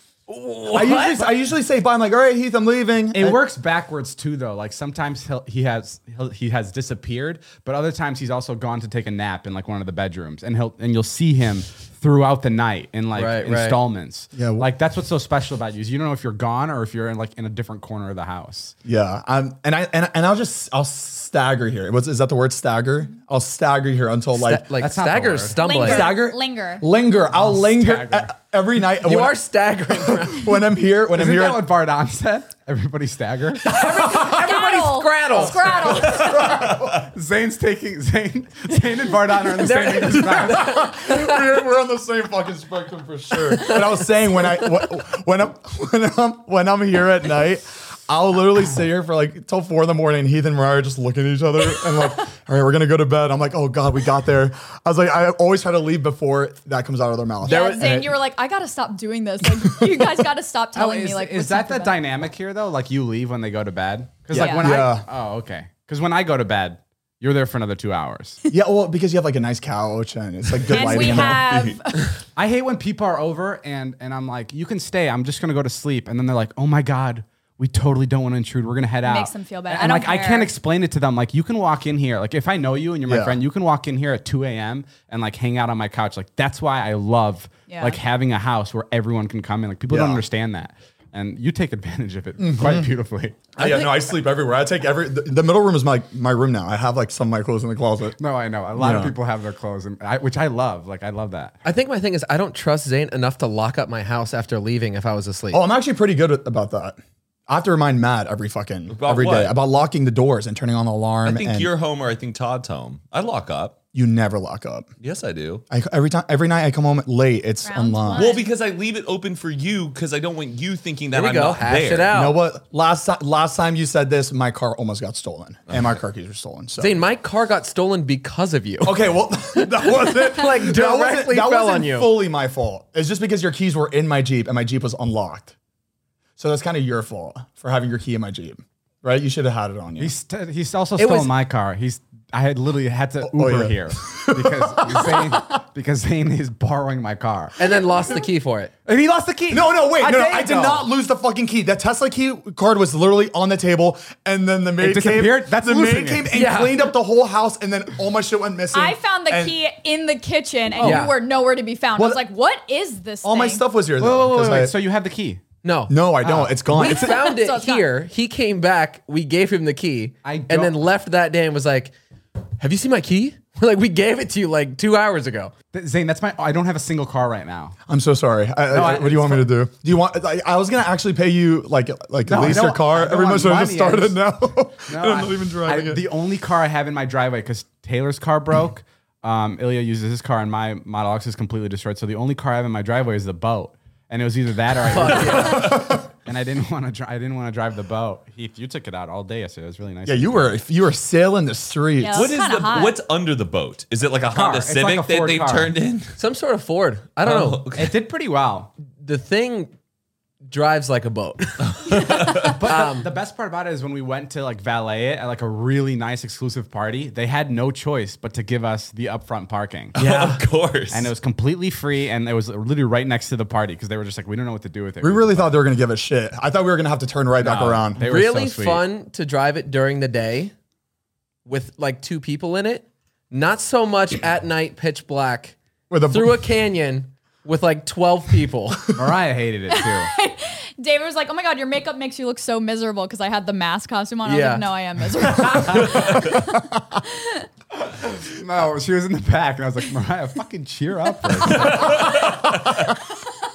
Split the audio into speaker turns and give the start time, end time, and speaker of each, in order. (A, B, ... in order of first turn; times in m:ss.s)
0:00.3-0:01.3 A
0:00.7-0:03.4 B
0:03.1-0:18.8 C
0:13.1-0:13.8 A
0:14.3-0:14.7 B
0:18.8-0:24.7 B
0:24.3-0:26.1 A
0:24.8-0:25.6 C
0:25.6-0:26.9 D
0:25.8-0:31.6 B
0:27.3-0:28.3 C
0:29.0-0:30.6 A
0:31.1-0:33.8 C
0:33.6-0:35.8 A
0:33.7-0:36.6 D
0:33.8-0:34.3 B
0:35.4-0:37.1 B
0:35.9-0:40.8 C
0:39.5-0:41.4 A
0:40.5-0:58.2 B
0:51.8-0:52.1 D
0:57.4-1:02.0 D
1:00.8-1:08.4 C
1:04.3-1:05.1 B
1:04.3-1:04.6 D
1:08.5-1:11.8 B
1:10.7-1:12.1 D
1:10.7-1:11.4 C
1:12.4-1:33.6 C
1:19.0-1:20.5 D
1:23.1-1:23.4 B
1:27.7-1:28.0 D
1:29.9-1:30.2 B
1:32.4-1:32.9 B
1:33.6-1:38.2 B
1:38.2-1:41.6 C
1:38.7-1:39.1 B
1:41.6-1:45.6 A
1:45.5-1:51.7 B
1:48.9-1:49.6 E
1:51.2-1:53.8 E
1:53.9-1:54.9 B
1:55.0-1:55.6 E
1:55.7-1:58.4 B
1:57.6-1:58.5 D
1:58.2-2:02.1 E
2:01.1-2:02.4 A
2:02.1-2:07.0 B
2:06.8-2:09.0 A
2:08.8-2:15.5 B
2:10.1-2:12.1 A
2:16.4-2:20.1 B
2:20.0-2:27.6 C
2:21.0-2:21.3 A
2:23.2-2:25.6 B
2:27.6-2:28.7 A
2:28.8-2:30.9 C
2:29.5-2:39.6 B
2:34.8-2:36.3 C
2:36.3-2:36.9 A
2:38.7-2:43.6 D
2:40.8-2:41.1 C
2:40.8-2:41.1 A
2:42.0-2:42.2 B
2:43.2-2:44.7 B
2:44.0-2:45.4 C
2:45.6-2:51.9 A
2:45.9-2:47.3 B
2:46.2-2:46.6 C
2:46.8-2:47.8 D
2:50.2-2:50.7 C
2:52.6-2:55.5 A
2:55.7-2:57.8 C
2:57.9-3:06.0 B
2:58.7-2:59.5 C
3:02.2-3:04.2 C
3:04.9-3:20.5 C
3:14.8-3:15.7 A
3:15.4-3:16.0 B
3:20.1-3:22.4 B
3:22.0-3:23.0 D
3:22.1-3:26.2 E
3:24.3-3:25.7 C
3:26.2-3:27.6 A
3:27.2-3:27.9 E
3:27.7-3:28.7 C
3:28.9-3:29.7 A
3:30.4-3:33.1 A
3:31.7-3:32.6 E
3:32.0-3:32.3 D
3:32.6-3:39.9 C
3:39.9-3:41.1 E
3:40.0-3:40.4 A
3:40.9-3:45.5 C
3:45.0-3:48.0 B
3:47.4-3:48.8 C
3:48.0-3:50.5 A
3:51.4-3:55.6 A
3:55.9-3:56.3 B
3:56.1-3:58.9 A
3:58.9-4:00.1 C
3:59.7-4:07.4 D
4:04.2-4:04.7 A
4:05.4-4:06.2 C
4:07.8-4:12.4 C
4:11.4-4:12.4 D
4:11.7-4:12.2 E